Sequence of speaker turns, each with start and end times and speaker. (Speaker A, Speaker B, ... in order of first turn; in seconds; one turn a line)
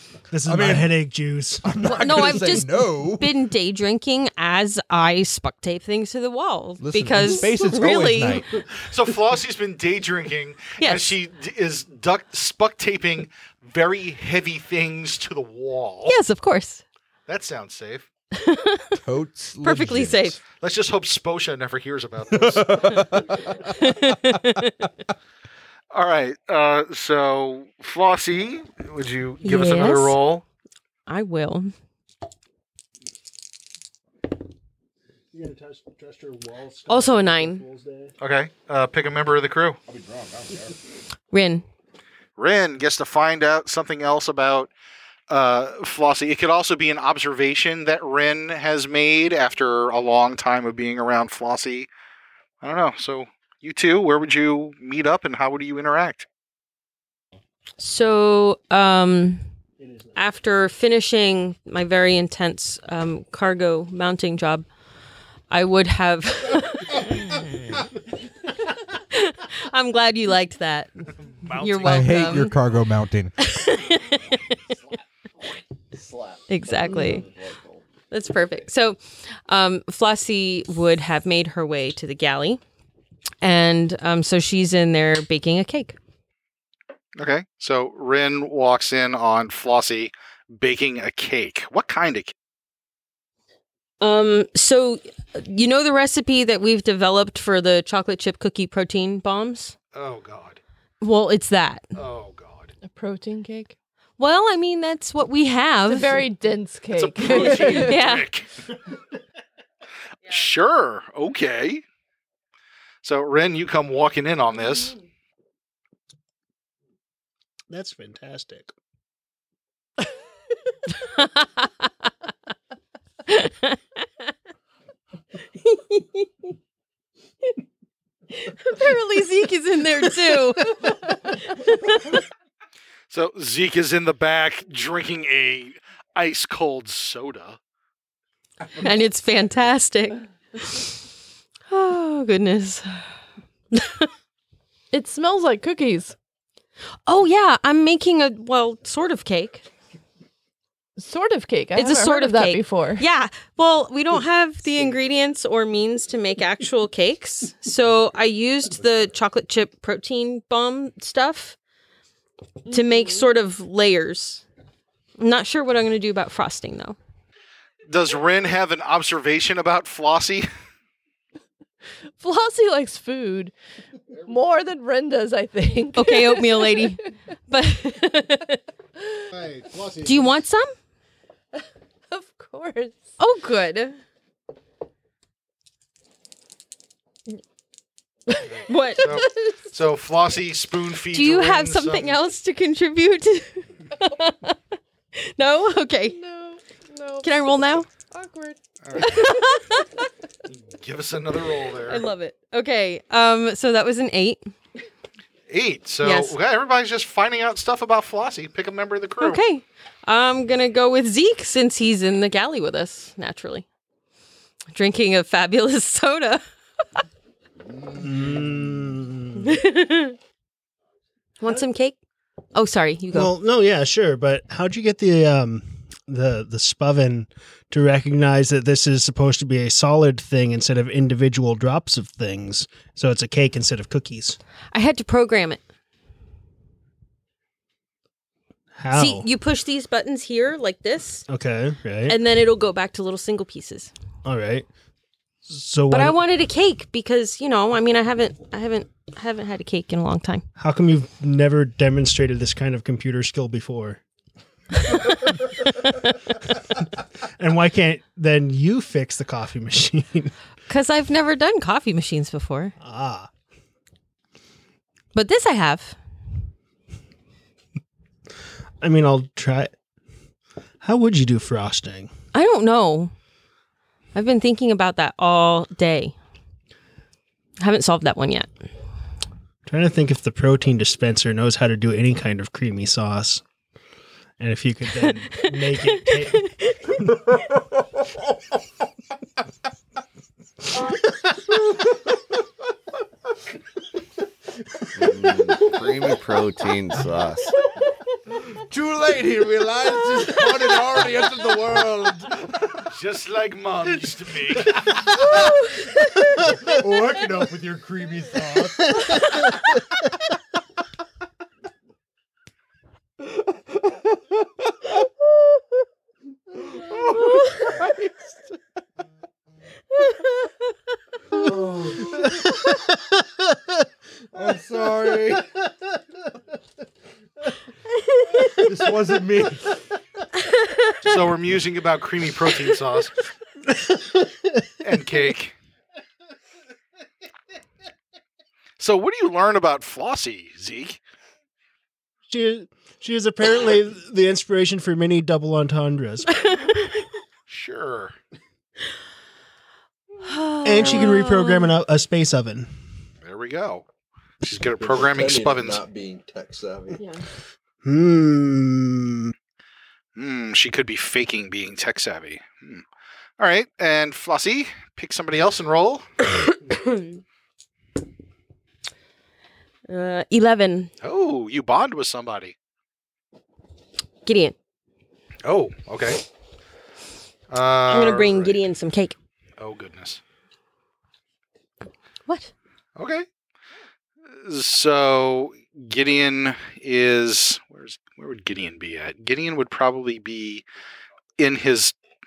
Speaker A: 0.3-1.7
Speaker B: 0.5-1.0
Speaker B: 1.6-3.3
Speaker C: 1.8-8.4
Speaker B: 6.8-8.6
Speaker D: 8.8-16.1
Speaker C: 10.8-11.2
Speaker C: 16.0-16.8
Speaker D: 17.3-18.1
Speaker C: 18.3-18.9
Speaker B: 18.9-20.4
Speaker C: 19.6-20.4
Speaker D: 20.6-23.1
Speaker B: 22.3-23.5
Speaker C: 23.7-24.9
Speaker D: 25.9-30.4
Speaker C: 29.4-30.1
Speaker C: 31.1-31.7
Speaker A: 35.3-38.1
Speaker C: 36.9-37.6
Speaker D: 38.2-39.8
Speaker B: 40.0-40.7
Speaker C: 41.3-41.6
Speaker D: 42.4-44.7
Speaker D: 45.3-51.9
Speaker D: 52.6-56.2
Speaker C: 57.8-59.4
Speaker A: 59.8-60.2
Speaker C: 60.1-64.7
Speaker C: 65.5-67.8
Speaker C: 68.8-72.5
Speaker D: 71.5-72.0
Speaker B: 71.8-73.3
Speaker C: 73.4-74.6
Speaker C: 76.5-77.2
Speaker C: 78.1-82.6
Speaker C: 83.4-86.0
Speaker D: 87.2-92.3
Speaker C: 94.0-99.7
Speaker D: 99.9-100.6
Speaker C: 101.0-101.8
Speaker D: 101.9-102.7
Speaker E: 102.8-103.7
Speaker C: 104.2-106.2
Speaker E: 105.9-108.0
Speaker D: 107.0-108.5
Speaker C: 107.6-108.3
Speaker D: 110.2-111.8
Speaker D: 113.0-114.9
Speaker A: 117.7-118.7
Speaker C: 120.9-121.9
Speaker C: 123.3-123.8
Speaker C: 125.7-126.2
Speaker C: 128.3-130.9
Speaker C: 131.5-132.2
Speaker D: 133.1-137.6
Speaker C: 138.8-140.9
Speaker C: 141.7-143.0
Speaker C: 143.7-144.1
Speaker E: 144.9-146.1
Speaker C: 147.1-149.7
Speaker E: 151.0-153.0
Speaker C: 151.7-161.6
Speaker C: 162.7-164.4
Speaker E: 162.7-163.2
Speaker C: 165.2-166.9
Speaker D: 167.9-170.5
Speaker E: 172.2-173.5
Speaker E: 174.2-177.0
Speaker C: 175.9-178.6
Speaker D: 179.4-179.7
Speaker C: 180.0-180.7
Speaker E: 182.1-183.0
Speaker C: 183.2-184.0
Speaker C: 188.7-189.2
Speaker D: 189.0-192.2
Speaker C: 191.1-194.6
Speaker C: 195.1-196.2
Speaker E: 196.1-198.6
Speaker C: 197.2-197.9
Speaker D: 198.8-199.2
Speaker C: 199.0-200.1
Speaker D: 200.7-202.0
Speaker C: 201.9-204.5
Speaker D: 205.5-209.4
Speaker C: 206.0-206.4
Speaker C: 209.2-213.7
Speaker C: 214.7-216.4
Speaker A: 217.9-219.5
Speaker C: 219.3-220.2
Speaker C: 221.4-221.9
Speaker C: 222.5-223.3
Speaker A: 223.1-234.4
Speaker C: 234.7-235.6
Speaker A: 238.7-239.3
Speaker C: 238.9-241.2
Speaker A: 241.3-242.2
Speaker C: 242.1-243.9
Speaker A: 244.2-244.7
Speaker A: 245.5-246.2
Speaker C: 245.9-250.4
Speaker A: 250.6-254.0
Speaker C: 255.7-256.1
Speaker A: 257.4-260.3
Speaker C: 260.7-262.7
Speaker A: 262.8-263.3
Speaker C: 265.1-265.9
Speaker A: 268.8-269.7
Speaker A: 270.8-272.1
Speaker C: 272.3-273.1
Speaker C: 274.1-276.1
Speaker C: 277.6-278.5
Speaker A: 279.6-283.4
Speaker A: 284.4-286.5
Speaker C: 286.0-286.9
Speaker F: 295.0-297.5
Speaker B: 298.4-302.6
Speaker D: 302.8-304.8
Speaker B: 304.8-305.7
Speaker B: 306.4-309.2
Speaker B: 313.3-314.3
Speaker B: 316.5-318.4
Speaker B: 321.4-322.1
Speaker B: 324.3-325.5
Speaker B: 328.5-329.8
Speaker C: 330.7-330.9
Speaker D: 331.0-333.1
Speaker D: 334.8-335.5
Speaker D: 338.8-341.0
Speaker A: 342.3-346.4
Speaker C: 346.4-346.9
Speaker D: 347.5-348.1
Speaker C: 350.2-351.7
Speaker A: 350.6-352.7
Speaker D: 353.2-353.8
Speaker D: 354.4-355.8
Speaker B: 355.0-357.0
Speaker A: 357.8-359.3
Speaker D: 360.1-362.8
Speaker D: 363.4-366.1
Speaker C: 366.7-367.1
Speaker C: 369.9-370.9
Speaker D: 371.0-372.5
Speaker C: 374.2-374.6
Speaker D: 375.4-376.2
Speaker D: 377.5-378.6
Speaker C: 377.9-379.1
Speaker D: 379.6-380.2
Speaker D: 382.9-383.2
Speaker D: 384.4-390.6
Speaker D: 391.4-391.9